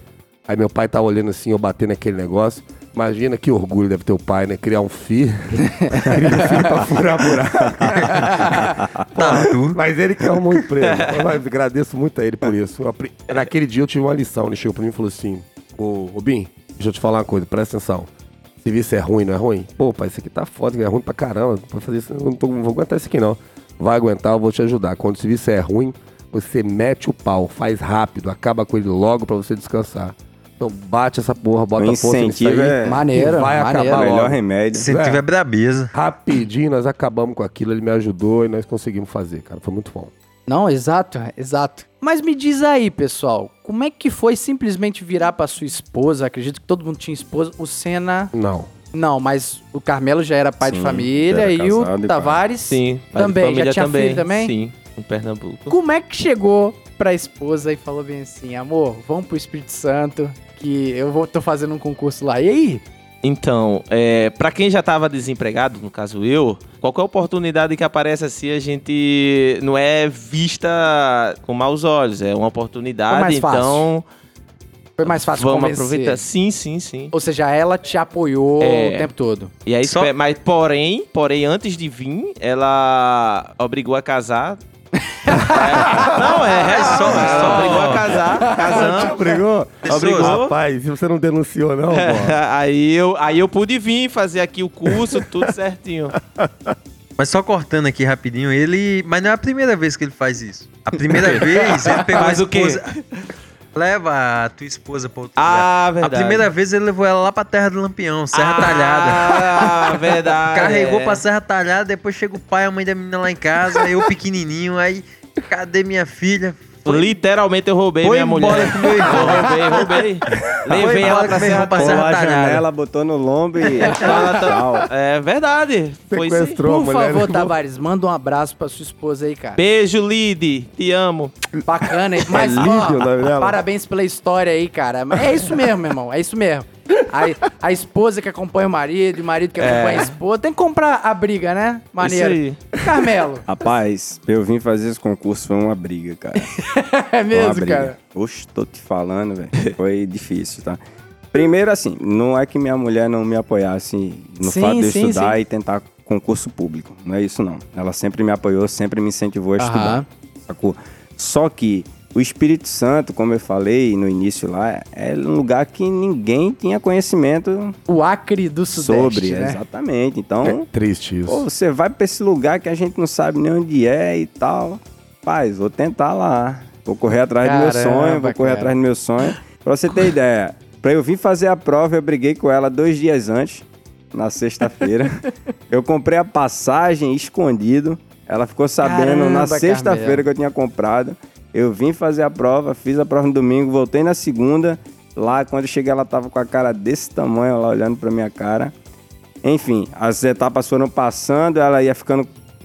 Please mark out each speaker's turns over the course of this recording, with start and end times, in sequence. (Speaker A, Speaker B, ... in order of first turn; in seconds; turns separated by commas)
Speaker A: 0.5-18.1, Speaker B: 7.8-9.5, Speaker C: 9.2-9.8, Speaker D: 10.8-11.2, Speaker A: 18.6-35.2, Speaker B: 31.8-34.9, Speaker E: 32.9-34.1, Speaker C: 34.8-35.9, Speaker A: 35.9-40.1, Speaker E: 40.5-48.3, Speaker A: 48.3-48.7, Speaker E: 48.9-54.5, Speaker B: 50.6-52.4, Speaker D: 52.7-55.8, Speaker E: 55.7-62.8, Speaker D: 63.2-74.0, Speaker E: 73.1-73.9, Speaker E: 75.0-76.2, Speaker D: 75.0-77.1, Speaker E: 77.1-79.5, Speaker D: 78.6-79.1, Speaker D: 79.7-84.6, Speaker C: 79.8-80.1, Speaker E: 85.1-86.0, Speaker D: 85.4-89.2, Speaker A: 85.9-86.4, Speaker C: 86.5-88.2, Speaker A: 87.0-88.0, Speaker E: 88.5-88.8, Speaker A: 88.5-92.4, Speaker C: 89.8-90.4, Speaker D: 89.9-90.5, Speaker D: 91.9-96.2, Speaker A: 96.3-96.8, Speaker C: 97.2-102.9, Speaker D: 101.2-103.2, Speaker C: 103.7-109.8, Speaker D: 105.4-106.5, Speaker D: 108.3-111.2, Speaker C: 110.5-117.1, Speaker D: 116.8-122.1, Speaker C: 118.0-119.6, Speaker C: 120.7-122.7, Speaker B: 120.9-124.9, Speaker D: 123.9-126.6, Speaker A: 126.1-127.5, Speaker E: 126.6-129.6, Speaker D: 129.6-131.3, Speaker E: 131.7-143.4, Speaker A: 132.3-133.6, Speaker D: 139.6-140.1, Speaker D: 142.0-142.6, Speaker B: 143.5-146.5, Speaker E: 146.4-148.0, Speaker B: 147.3-150.8, Speaker B: 151.3-167.8, Speaker E: 154.4-155.4, Speaker E: 159.6-160.1, Speaker E: 167.9-169.6, Speaker B: 168.7-170.7, Speaker A: 170.4-171.5, Speaker B: 171.3-198.7, Speaker E: 177.4-178.7, Speaker E: 188.8-190.2, Speaker B: 199.4-202.3